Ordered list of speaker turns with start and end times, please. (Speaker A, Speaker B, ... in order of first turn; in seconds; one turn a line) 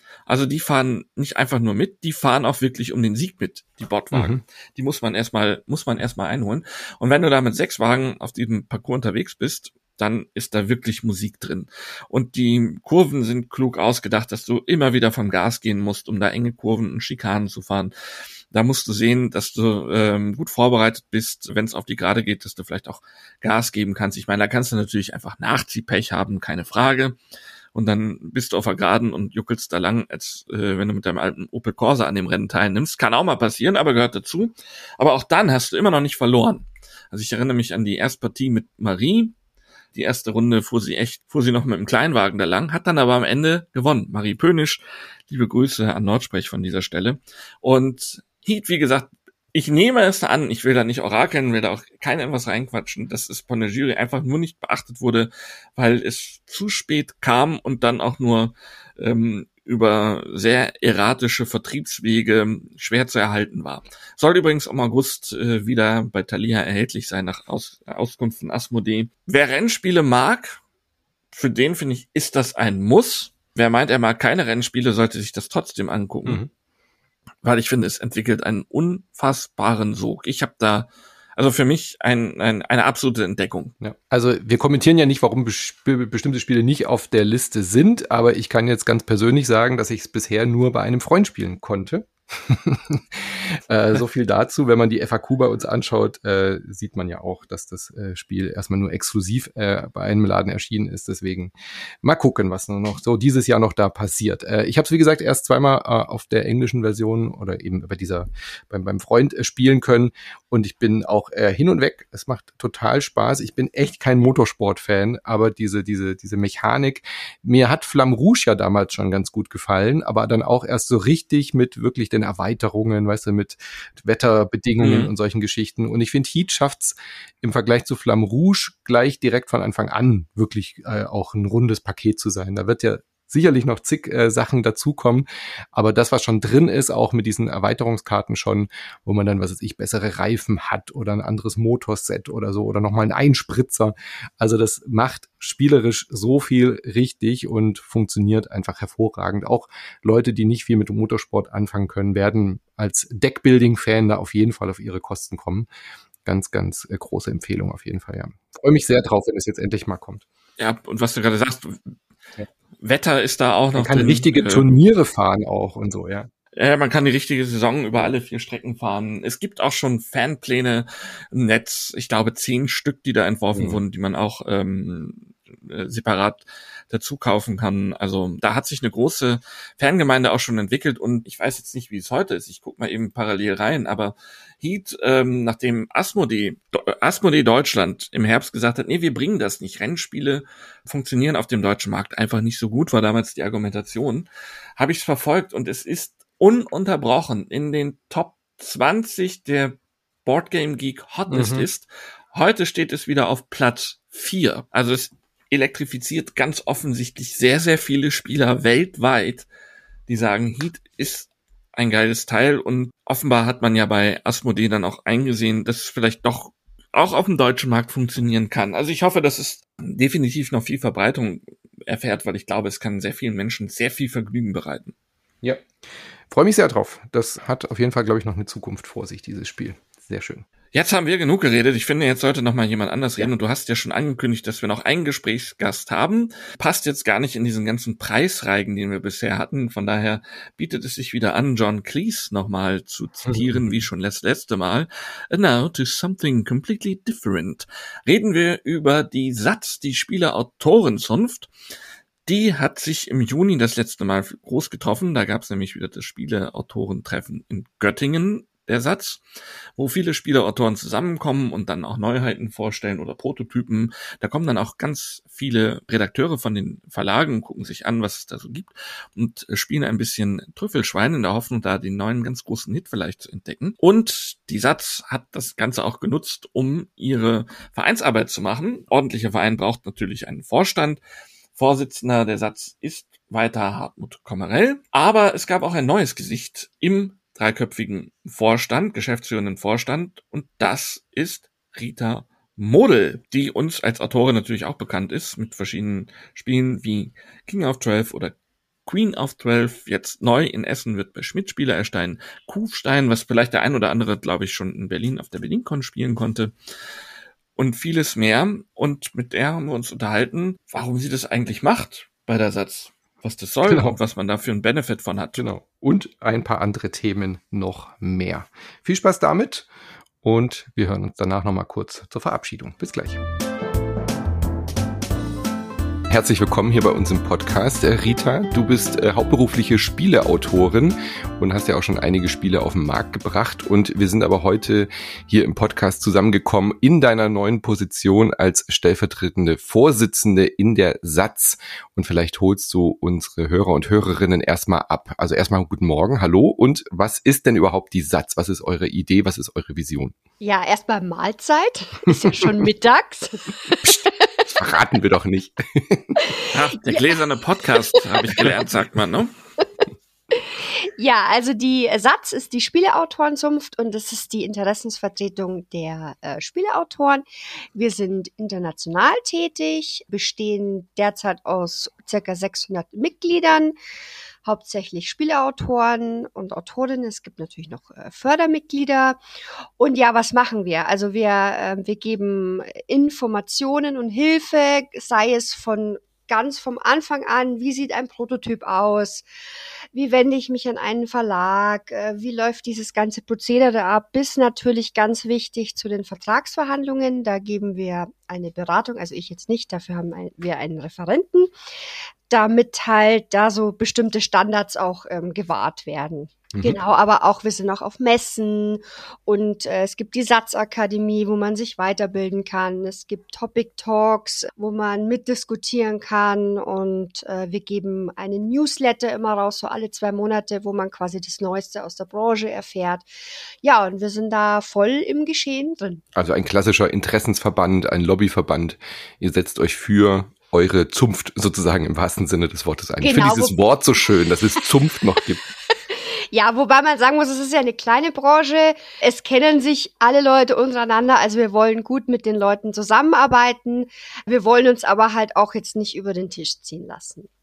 Speaker A: 0.3-17.9
Speaker B: 4.1-4.4
Speaker A: 18.5-27.2
Speaker A: 27.7-39.3
Speaker A: 39.9-70.6
Speaker A: 71.3-76.4
Speaker A: 77.4-83.7
Speaker B: 83.8-155.7
Speaker A: 124.8-125.1
Speaker B: 156.2-160.2
Speaker A: 160.6-161.9
Speaker A: 162.8-164.7
Speaker B: 163.7-166.3
Speaker A: 166.5-209.4
Speaker B: 173.5-173.8
Speaker B: 201.3-201.7
Speaker A: 210.1-224.9
Speaker B: 226.3-230.4
Speaker A: 230.7-251.5
Speaker B: 243.2-243.8
Speaker A: 252.3-259.2
Speaker A: 259.8-281.0
Speaker A: 281.5-298.3
Speaker A: 298.9-306.5
Speaker A: 307.6-315.4
Speaker B: 313.7-314.0
Speaker B: 315.4-319.7
Speaker B: 320.2-323.2
Speaker B: 326.1-350.1
Speaker C: 350.4-354.3
Speaker B: 353.8-356.3
Speaker C: 356.2-357.1
Speaker A: 356.5-359.3
Speaker C: 357.9-358.4
Speaker C: 360.3-373.8
Speaker C: 374.4-379.2
Speaker C: 379.8-389.2
Speaker C: 389.9-401.5
Speaker C: 402.3-423.1
Speaker B: 406.5-406.8
Speaker C: 423.6-426.0
Speaker B: 426.1-435.4
Speaker C: 433.0-433.6
Speaker C: 435.9-447.3